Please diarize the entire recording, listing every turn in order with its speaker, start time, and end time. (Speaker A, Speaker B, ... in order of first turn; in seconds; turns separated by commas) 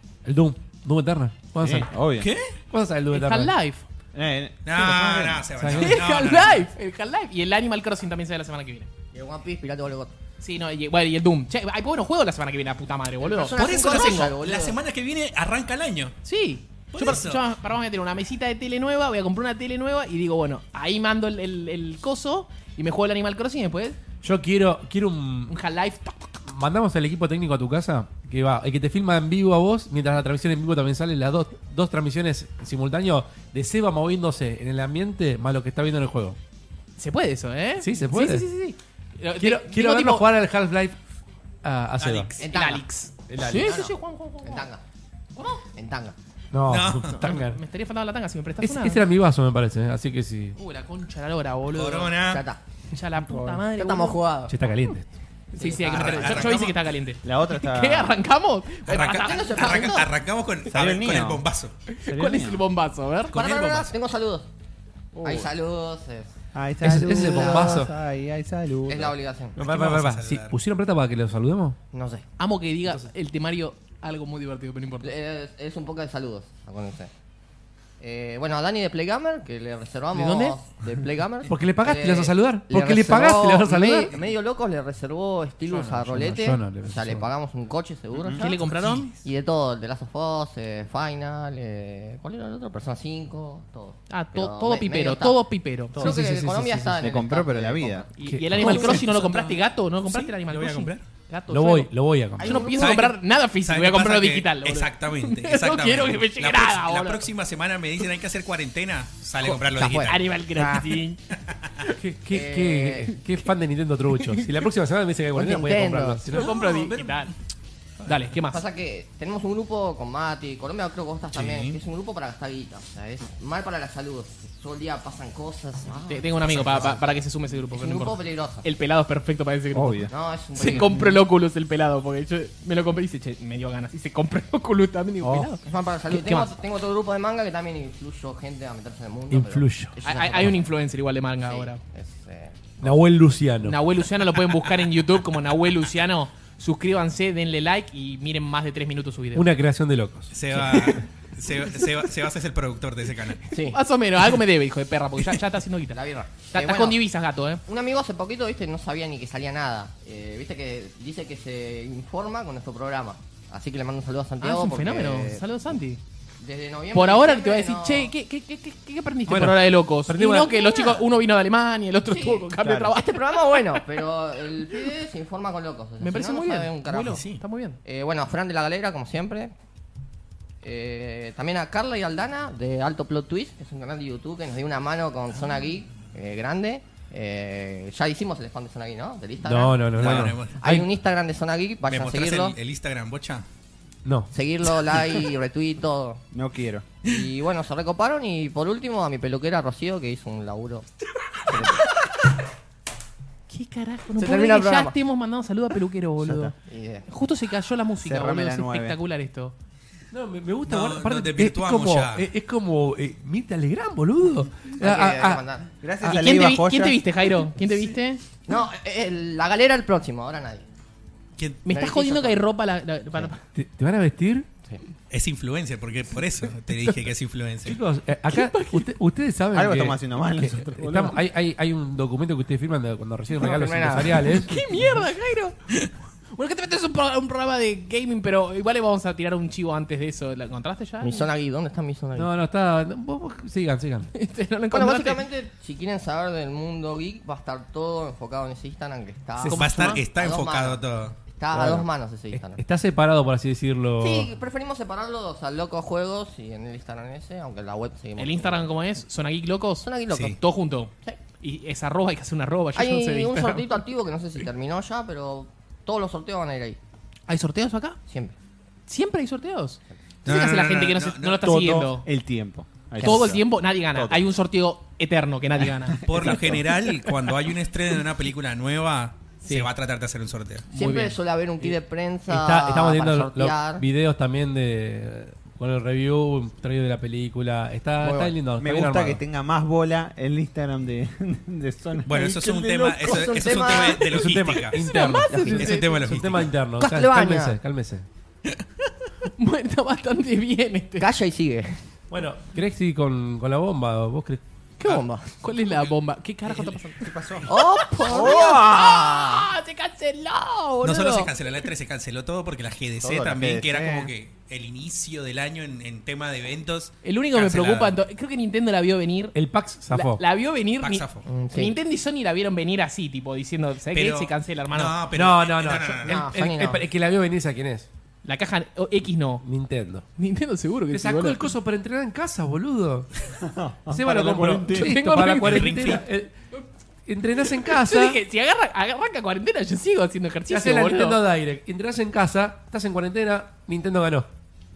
Speaker A: 0.2-1.9, Speaker B: 1.6-2.3, Speaker C: 2.2-2.5, Speaker A: 2.7-3.6, Speaker D: 3.1-3.9, Speaker B: 4.1-5.5, Speaker C: 4.7-6.7, Speaker A: 5.6-6.0, Speaker D: 5.8-8.9, Speaker E: 9.1-10.2, Speaker D: 10.4-14.3, Speaker E: 13.2-14.8, Speaker C: 13.6-16.2, Speaker D: 16.2-24.0, Speaker C: 16.9-17.4, Speaker A: 24.2-25.6, Speaker D: 25.5-26.3, Speaker A: 26.5-36.4, Speaker D: 37.0-40.3, Speaker A: 37.8-38.5, Speaker A: 39.4-41.0, Speaker A: 41.6-42.3, Speaker C: 42.0-42.5, Speaker E: 42.4-42.9, Speaker D: 42.4-44.7, Speaker A: 43.3-43.8, Speaker E: 43.4-44.8, Speaker D: 45.4-45.6, Speaker E: 45.6-46.2, Speaker A: 46.5-47.6, Speaker C: 46.7-47.2, Speaker D: 47.1-49.1, Speaker A: 48.6-50.6, Speaker D: 50.6-52.2, Speaker C: 51.7-52.4, Speaker E: 52.3-52.6, Speaker D: 52.9-54.2, Speaker E: 53.7-54.6, Speaker A: 54.5-55.1, Speaker D: 55.5-60.0, Speaker E: 55.6-56.7, Speaker C: 55.8-56.7, Speaker B: 57.2-58.2, Speaker C: 58.9-61.7, Speaker E: 58.9-60.1, Speaker B: 60.7-61.5, Speaker D: 61.9-63.4, Speaker B: 62.1-62.6, Speaker C: 63.3-63.9, Speaker E: 63.3-64.5, Speaker B: 65.2-65.5, Speaker E: 65.2-66.3, Speaker B: 66.5-69.2, Speaker A: 66.8-67.9, Speaker E: 67.1-67.8, Speaker E: 68.9-69.6, Speaker C: 69.6-70.5, Speaker A: 69.6-71.8, Speaker E: 71.9-72.3, Speaker D: 72.4-75.1, Speaker E: 75.0-77.1, Speaker E: 78.0-88.5, Speaker D: 80.1-80.6, Speaker A: 81.5-84.2, Speaker A: 85.7-87.3, Speaker B: 88.2-88.5, Speaker D: 88.3-89.1, Speaker C: 88.6-89.2, Speaker E: 89.2-95.4, Speaker D: 94.1-96.2, Speaker E: 95.9-99.1, Speaker A: 96.0-97.0, Speaker B: 97.0-98.1, Speaker D: 98.2-107.3, Speaker A: 98.2-99.0, Speaker C: 99.1-99.5, Speaker C: 100.0-101.0, Speaker A: 101.5-102.7, Speaker E: 102.4-103.0, Speaker C: 102.8-110.3, Speaker D: 109.5-111.2, Speaker E: 109.7-110.7, Speaker C: 111.5-111.7, Speaker A: 111.9-116.5, Speaker E: 112.3-113.1, Speaker D: 114.2-114.5, Speaker E: 115.3-116.2, Speaker D: 116.3-117.3, Speaker C: 116.3-117.3, Speaker D: 118.0-118.6, Speaker E: 118.5-127.0, Speaker C: 121.3-121.8, Speaker D: 126.1-136.5, Speaker C: 126.5-127.0, Speaker E: 127.7-128.7, Speaker B: 129.7-130.1, Speaker E: 130.1-131.2, Speaker B: 135.2-135.5, Speaker E: 135.7-140.6, Speaker A: 139.3-140.0, Speaker D: 140.0-141.8, Speaker E: 141.5-142.8, Speaker A: 142.8-143.8, Speaker D: 143.6-149.5, Speaker A: 149.3-151.0, Speaker C: 150.3-153.4, Speaker E: 153.5-153.8, Speaker D: 153.7-156.0, Speaker E: 155.9-157.0, Speaker D: 156.5-157.6, Speaker E: 157.7-165.5, Speaker D: 164.4-166.0, Speaker E: 166.4-168.1, Speaker D: 166.9-173.8, Speaker A: 169.3-170.5, Speaker E: 170.6-171.0, Speaker E: 172.1-177.3, Speaker B: 172.6-172.9, Speaker D: 176.0-177.8, Speaker C: 177.1-177.4, Speaker E: 177.8-179.5, Speaker E: 180.6-192.6, Speaker A: 189.4-190.9, Speaker C: 189.9-190.6, Speaker C: 191.9-193.4, Speaker A: 194.1-194.3, Speaker E: 194.3-196.2, Speaker B: 196.3-196.9, Speaker E: 197.0-200.9, Speaker E: 201.5-201.8, Speaker D: 203.5-206.6, Speaker E: 204.2-205.0, Speaker B: 206.2-206.5, Speaker E: 206.6-207.1, Speaker D: 207.1-209.6, Speaker B: 208.0-209.0, Speaker A: 210.1-215.4, Speaker C: 210.7-212.3, Speaker E: 214.8-215.7, Speaker B: 215.8-217.0, Speaker D: 216.0-218.2, Speaker E: 218.5-220.7, Speaker C: 221.4-221.7, Speaker D: 221.7-223.4, Speaker E: 221.7-222.4, Speaker A: 223.5-224.5, Speaker C: 225.1-227.8, Speaker A: 227.7-234.6, Speaker D: 228.3-228.9, Speaker B: 229.5-231.2, Speaker E: 233.4-234.4, Speaker D: 234.2-235.6, Speaker D: 236.3-241.3, Speaker E: 241.0-242.3, Speaker A: 242.2-244.1, Speaker D: 244.1-245.2, Speaker E: 244.7-252.6, Speaker D: 249.4-250.0, Speaker C: 249.5-251.2, Speaker A: 251.5-254.3, Speaker E: 254.0-258.7, Speaker D: 258.2-263.7, Speaker E: 259.8-260.4, Speaker C: 260.1-260.4, Speaker E: 262.8-266.8, Speaker D: 267.3-268.0, Speaker E: 268.1-268.4, Speaker D: 268.9-272.1, Speaker C: 270.2-271.5, Speaker B: 271.4-273.4, Speaker E: 273.0-273.4, Speaker D: 273.0-276.4, Speaker B: 273.9-274.3, Speaker B: 276.0-276.6, Speaker C: 276.1-280.7, Speaker D: 279.4-279.7, Speaker D: 280.7-281.2, Speaker E: 280.7-283.9, Speaker A: 282.3-289.2, Speaker B: 288.1-293.6, Speaker C: 292.1-294.9, Speaker E: 293.0-294.1, Speaker A: 294.0-298.1, Speaker D: 294.8-296.1, Speaker E: 295.3-295.8, Speaker C: 295.6-296.5, Speaker E: 296.8-297.6, Speaker D: 299.2-301.1, Speaker E: 301.0-301.9, Speaker A: 302.1-304.4, Speaker E: 304.8-305.4, Speaker D: 305.4-311.3, Speaker C: 305.5-305.9, Speaker B: 307.0-309.5, Speaker E: 307.5-308.7, Speaker C: 310.8-318.0, Speaker B: 313.0-314.1, Speaker D: 317.0-319.4, Speaker A: 319.3-320.2, Speaker D: 319.9-325.0, Speaker C: 320.8-321.3, Speaker E: 321.3-321.8, Speaker C: 323.9-326.2, Speaker A: 325.1-327.9, Speaker E: 326.0-326.9, Speaker D: 328.2-329.4, Speaker A: 329.4-330.1, Speaker D: 330.2-331.6, Speaker A: 330.9-333.1, Speaker B: 333.4-334.9, Speaker A: 333.9-336.3, Speaker D: 334.7-336.0, Speaker C: 335.4-336.0, Speaker A: 337.1-338.2, Speaker D: 337.5-341.2, Speaker A: 340.5-344.3